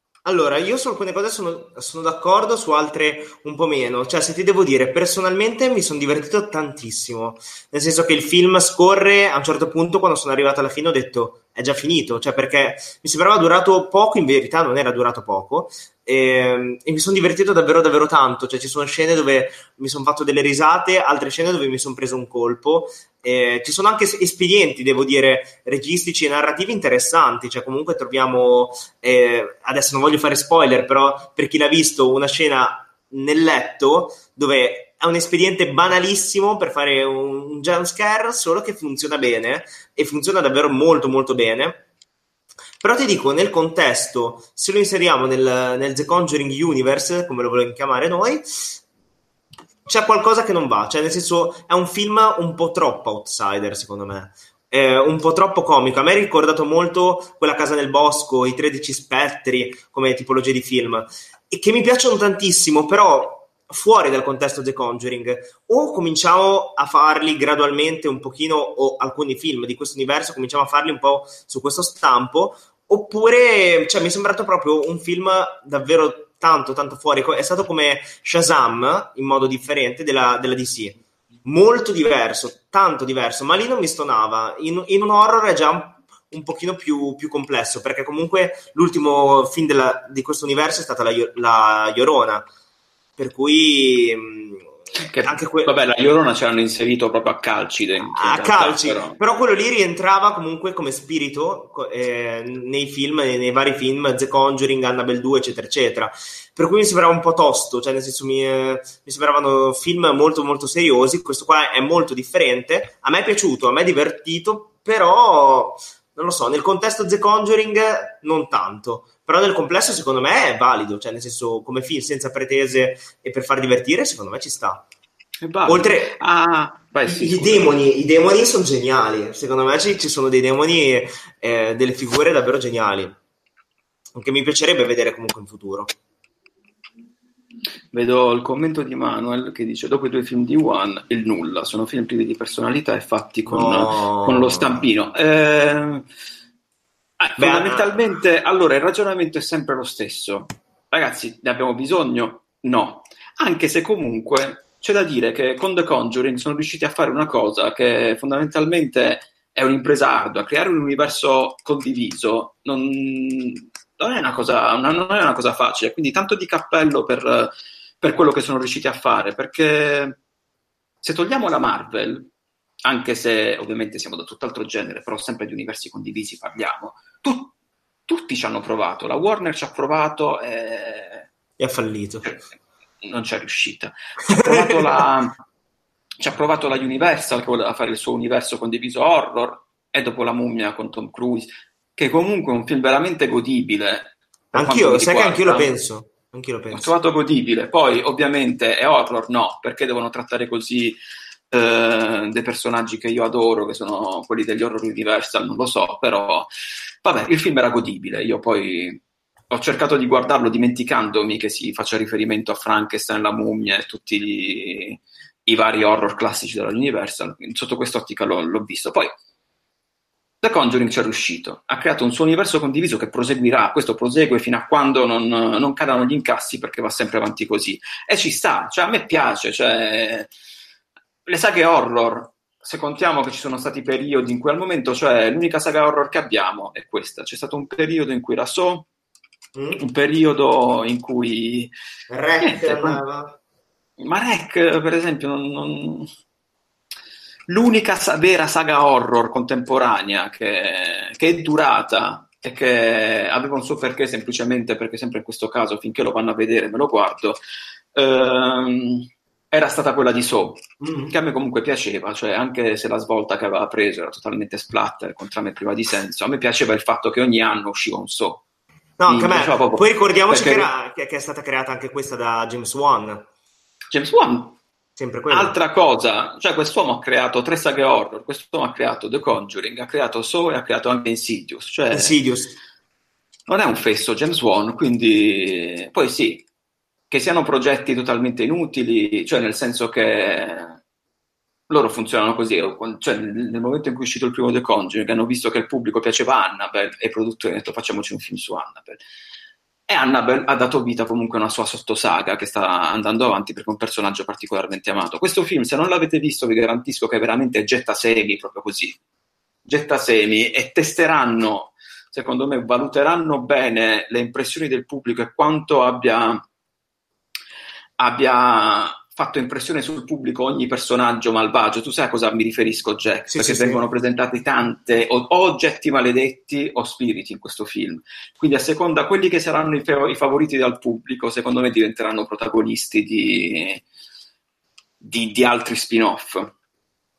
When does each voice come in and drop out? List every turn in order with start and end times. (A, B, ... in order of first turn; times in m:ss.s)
0:00.2-0:41.8 A
0:42.8-0:48.8 A
0:49.8-1:32.4 A
1:33.2-1:35.7 A
1:35.0-1:39.2 B
1:38.1-2:04.8 A
2:05.4-2:07.8 B
2:05.7-2:06.2 A
2:07.0-2:13.2 A
2:14.1-2:15.9 A
2:17.9-2:26.0 B
2:23.5-2:24.8 A
2:27.2-2:50.2 B
2:27.4-2:27.9 A
2:51.0-2:52.3 B
2:52.8-2:57.5 B
2:58.1-3:01.3 B
3:01.6-3:02.3 A
3:03.0-3:05.4 B
3:04.3-3:05.0 A
3:06.2-3:15.7 B
3:14.5-3:16.9 A
3:16.7-3:21.0 B
3:21.5-3:26.5 B
3:27.0-3:39.1 B
3:40.4-3:50.3 B
3:51.2-3:58.9 B
3:59.6-3:59.8 A
3:59.8-4:01.7 B
4:02.1-4:03.4 A
4:02.4-4:03.0 B
4:04.0-4:06.1 B
4:07.5-4:17.4 B
4:17.9-4:28.4 B
4:20.8-4:21.1 A
4:29.0-4:33.2 A
4:29.1-4:30.7 B
4:33.9-4:34.6 B
4:35.0-4:35.6 A
4:35.3-4:42.2 B
4:41.9-4:42.6 A
4:43.5-4:46.4 B
4:47.1-4:50.8 B
4:51.7-4:59.0 B
4:59.9-5:09.0 B
5:09.6-5:16.4 B
5:18.0-5:33.8 B
5:23.3-5:23.8 A
5:35.0-5:36.5 B